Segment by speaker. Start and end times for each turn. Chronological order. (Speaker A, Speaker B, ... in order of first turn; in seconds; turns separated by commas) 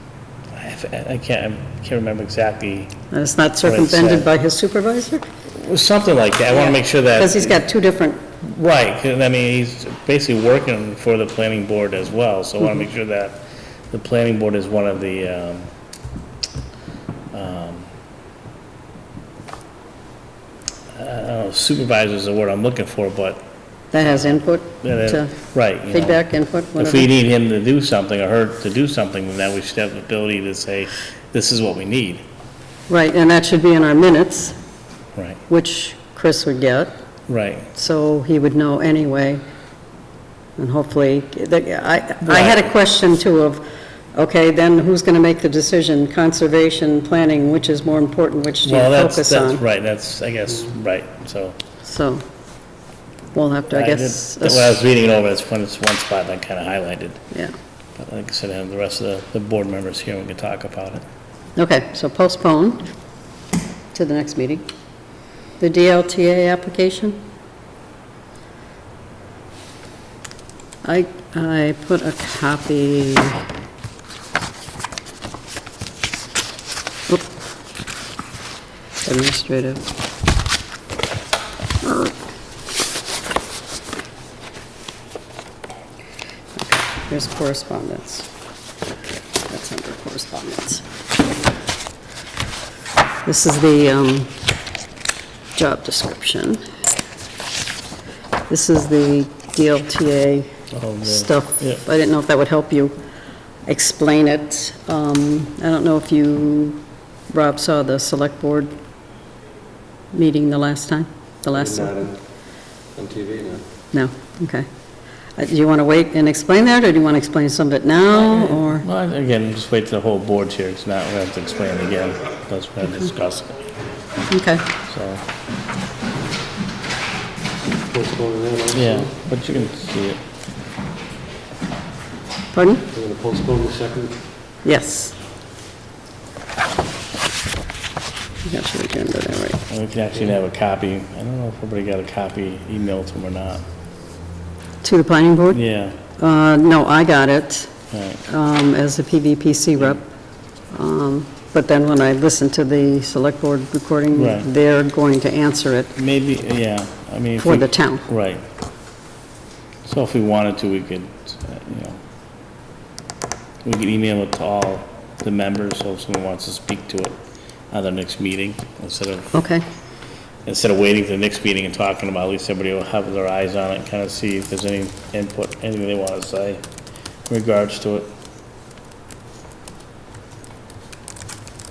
Speaker A: 0.6-3.0, Speaker B: 3.1-5.3, Speaker A: 3.6-4.3, Speaker A: 5.5-7.6, Speaker B: 6.5-8.2, Speaker A: 8.4-15.7, Speaker A: 17.3-17.9, Speaker A: 20.9-23.5, Speaker B: 23.9-25.3, Speaker A: 24.0-32.2, Speaker B: 25.9-27.1, Speaker B: 32.9-34.6, Speaker A: 35.1-35.4, Speaker B: 35.5-36.9, Speaker A: 37.3-37.7, Speaker B: 37.8-39.4, Speaker B: 40.6-49.6, Speaker A: 42.2-42.7, Speaker A: 48.6-51.6, Speaker B: 51.8-52.2, Speaker B: 53.3-54.8, Speaker A: 53.7-57.2, Speaker A: 58.0-61.0, Speaker B: 61.6-62.9, Speaker B: 63.9-64.7, Speaker B: 65.6-67.2, Speaker B: 70.8-73.4, Speaker B: 79.0-79.8, Speaker B: 81.8-82.1, Speaker B: 86.6-88.3, Speaker B: 89.5-90.8, Speaker B: 93.3-94.3, Speaker B: 95.5-96.6, Speaker B: 98.5-100.5, Speaker A: 100.7-101.8, Speaker B: 101.0-102.9, Speaker B: 103.7-108.7, Speaker B: 110.1-111.9, Speaker C: 111.5-112.2, Speaker C: 113.0-113.6, Speaker B: 113.9-114.7, Speaker B: 115.4-118.8, Speaker A: 118.7-123.6, Speaker B: 124.3-124.6, Speaker A: 124.9-125.2, Speaker C: 127.9-129.1, Speaker A: 128.7-130.2, Speaker B: 132.5-132.9, Speaker C: 132.9-134.2, Speaker B: 134.7-135.1, Speaker B: 138.5-139.6, Speaker A: 139.7-143.7, Speaker B: 144.8-145.6, Speaker A: 145.5-146.0, Speaker B: 146.2-147.7, Speaker A: 147.9-148.2, Speaker B: 148.3-150.0, Speaker B: 150.7-155.9, Speaker A: 154.1-154.5, Speaker A: 156.0-158.4, Speaker B: 157.4-158.1, Speaker A: 159.9-162.0, Speaker A: 163.6-167.2, Speaker A: 167.7-169.4, Speaker B: 169.3-169.7, Speaker A: 170.5-176.6, Speaker A: 177.3-178.1